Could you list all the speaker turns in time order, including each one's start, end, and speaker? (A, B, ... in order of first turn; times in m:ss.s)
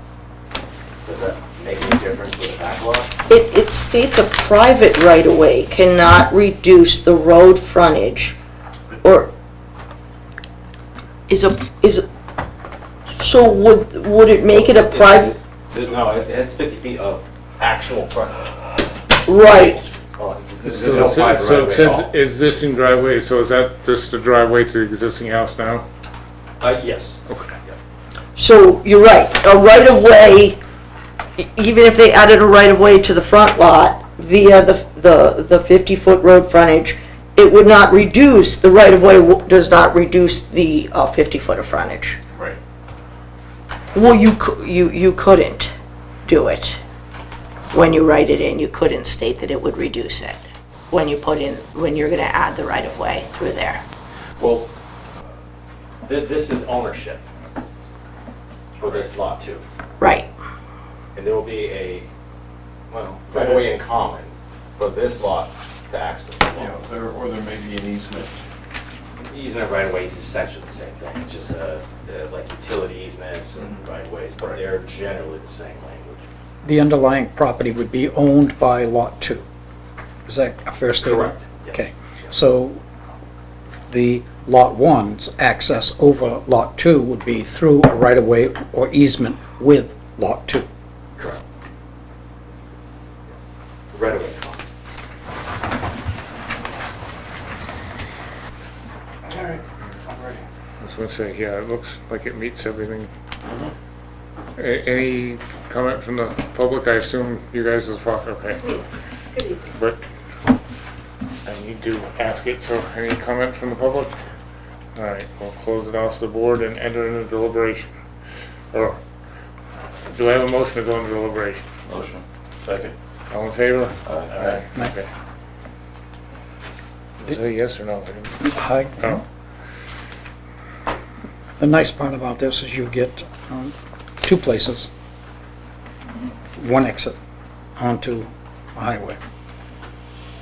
0:01.0-0:03.1 A
0:03.3-0:08.4 B
0:09.0-0:09.3 B
0:11.3-0:12.0 B
0:13.1-0:15.3 B
0:14.5-0:18.6 A
0:19.2-0:19.8 B
0:19.4-0:22.1 A
0:20.6-0:25.8 C
0:26.6-0:27.8 A
0:27.3-0:27.5 C
0:28.4-0:30.6 B
0:31.4-0:42.2 B
0:43.9-0:45.7 B
0:46.2-0:46.8 B
0:47.7-0:53.8 B
0:54.4-0:54.6 D
0:56.0-0:57.2 A
0:58.8-0:59.6 A
1:00.0-1:00.3 B
1:01.1-1:02.1 A
1:02.9-1:06.7 A
1:03.3-1:03.6 D
1:06.5-1:08.4 D
1:09.2-1:16.2 A
1:16.6-1:19.4 E
1:20.3-1:22.8 E
1:21.0-1:22.3 A
1:23.9-1:30.7 E
1:31.2-1:31.4 A
1:33.9-1:34.6 A
1:39.3-1:40.4 A
1:40.8-1:43.1 C
1:44.6-1:48.7 C
1:49.7-1:50.0 C
1:51.4-1:54.1 C
1:55.0-1:57.9 C
1:58.7-1:59.0 C
2:00.1-2:01.7 C
2:01.9-2:02.9 D
2:03.3-2:05.1 C
2:04.0-2:04.6 D
2:07.2-2:08.5 C
2:08.4-2:09.2 E
2:11.6-2:14.9 E
2:16.6-2:17.2 E
2:17.8-2:19.2 E